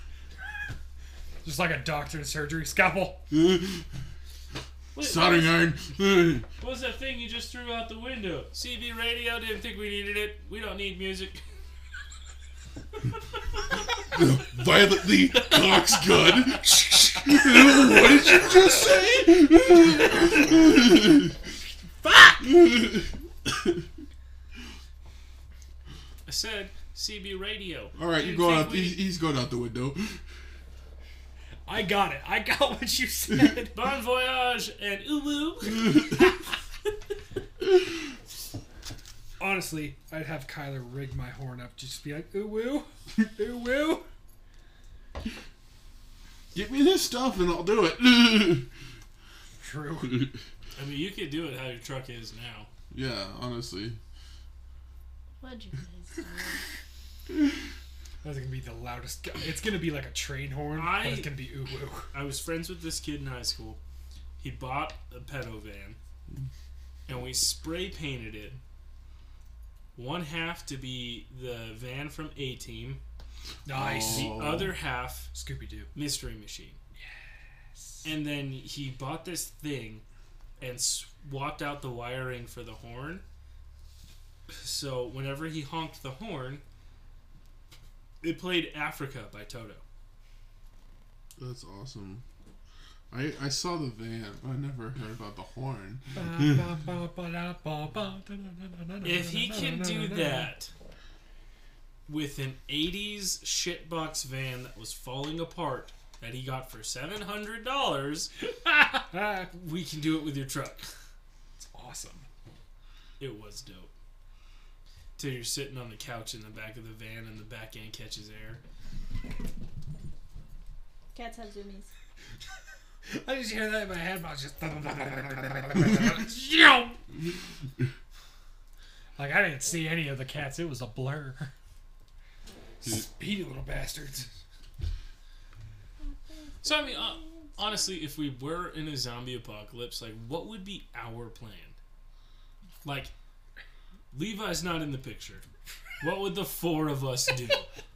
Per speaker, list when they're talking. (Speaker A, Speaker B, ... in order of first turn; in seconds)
Speaker A: 1.4-3.2, 22.0-22.5, 31.6-33.8, 39.4-44.0, 49.6-50.2, 58.2-62.1, 73.6-74.4, 75.3-75.9, 77.8-78.1, 96.2-100.5, 108.5-109.5, 111.6-112.2, 123.1-127.0, 129.2-131.5, 132.8-134.3
Speaker B: 3.3-3.9, 5.0-6.5, 14.0-21.4, 22.4-23.8, 27.9-30.2, 46.5-48.7, 52.9-54.0, 73.7-74.7, 91.4-92.2, 93.1-96.5
Speaker C: 4.9-5.6, 6.6-11.4, 26.2-29.0, 33.7-36.2, 50.8-52.7, 60.7-61.3, 62.1-63.8, 64.4-66.0, 67.1-68.6, 69.9-73.0, 74.0-75.3, 75.9-76.8, 78.0-80.0, 80.6-83.2, 84.5-86.6, 88.2-89.8, 99.0-100.7, 102.1-108.3, 109.5-110.9, 113.2-113.9, 115.2-118.6, 136.6-141.8, 142.8-143.1, 144.1-145.4, 146.0-147.7
Speaker D: 55.4-56.6, 121.1-121.9